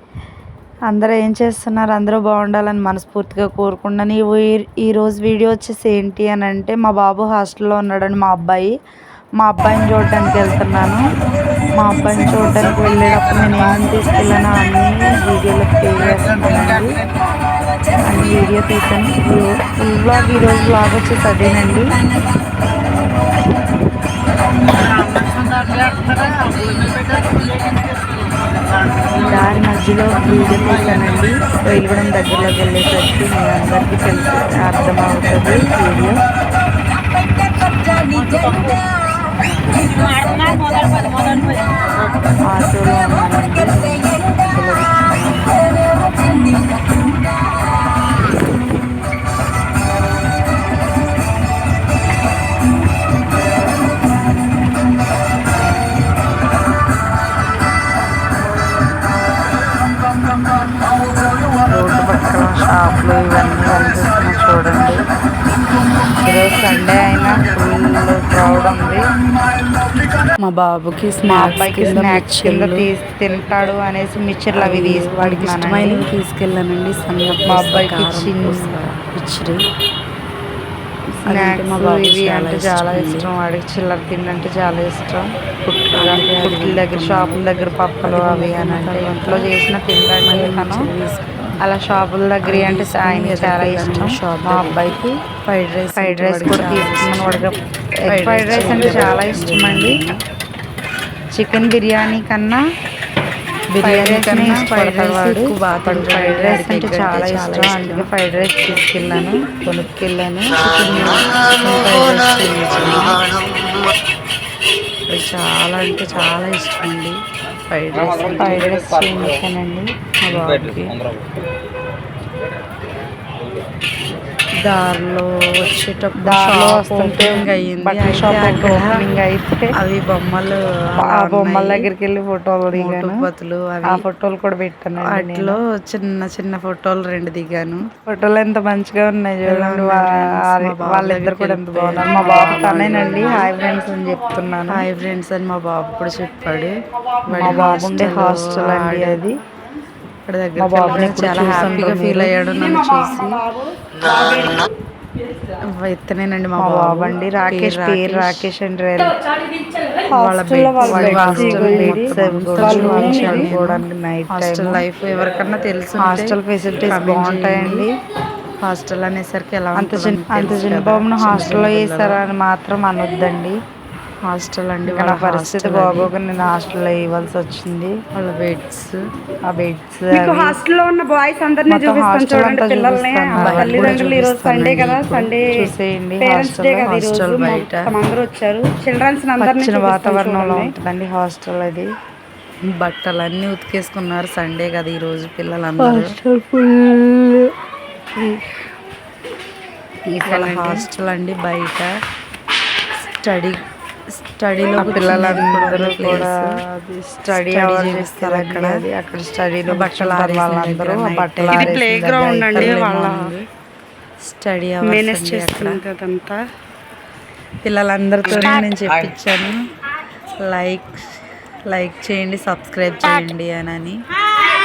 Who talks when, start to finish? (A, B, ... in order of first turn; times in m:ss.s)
0:00.9-0:08.8 A
0:09.4-0:11.0 A
0:11.8-0:17.0 A
0:18.0-0:21.9 A
0:29.2-0:36.2 A
0:42.5-0:45.6 A
1:01.7-1:05.0 A
1:06.2-1:09.0 A
1:10.4-1:12.9 B
1:11.3-1:16.0 A
1:14.5-1:19.6 B
1:17.5-1:18.8 A
1:21.2-1:23.3 B
1:21.3-1:30.9 A
1:25.9-1:27.4 B
1:28.0-1:29.5 B
1:30.2-1:31.6 B
1:31.6-1:35.2 A
1:32.4-1:37.5 B
1:36.0-1:37.6 A
1:38.1-1:40.0 A
1:38.1-1:40.2 B
1:41.4-1:42.6 A
1:43.8-1:48.1 B
1:43.8-1:53.0 A
1:50.7-1:53.2 B
1:55.1-1:58.7 B
1:58.2-2:00.8 A
2:00.2-2:01.0 B
2:04.6-2:09.1 B
2:06.2-2:09.7 A
2:09.8-2:11.8 B
2:11.0-2:13.2 A
2:12.7-2:14.0 B
2:13.8-2:15.6 A
2:15.0-2:17.8 B
2:18.0-2:24.8 A
2:19.5-2:23.5 B
2:24.7-2:26.8 B
2:27.3-2:29.2 B
2:27.3-2:29.4 A
2:30.2-2:33.4 B
2:30.6-2:32.3 A
2:32.5-2:34.6 C
2:35.6-2:38.5 B
2:36.6-2:39.2 A
2:40.0-2:43.5 C
2:40.1-2:47.9 B
2:40.8-2:44.8 A
2:46.0-2:47.9 A
2:48.6-2:52.2 B
2:49.8-2:53.6 A
2:54.2-2:56.1 B
2:54.9-2:58.0 A
2:58.1-2:59.0 B
2:59.4-3:00.6 A
3:00.1-3:05.7 C
3:01.7-3:04.1 A
3:03.4-3:05.3 B
3:05.5-3:06.6 A
3:06.2-3:10.7 C
3:06.5-3:07.9 B
3:09.4-3:11.9 A
3:12.7-3:16.1 B
3:15.8-3:17.3 A
3:20.1-3:20.8 A
3:20.3-3:21.9 B
3:23.0-3:23.6 B
3:24.2-3:26.5 B
3:24.8-3:32.9 A
3:27.2-3:28.8 B
3:29.7-3:33.4 B
3:31.5-3:33.3 C
3:34.2-3:35.8 B
3:34.8-3:36.4 C
3:37.6-3:39.6 B
3:38.2-3:38.7 A
3:40.4-3:41.0 B
3:41.6-3:44.0 B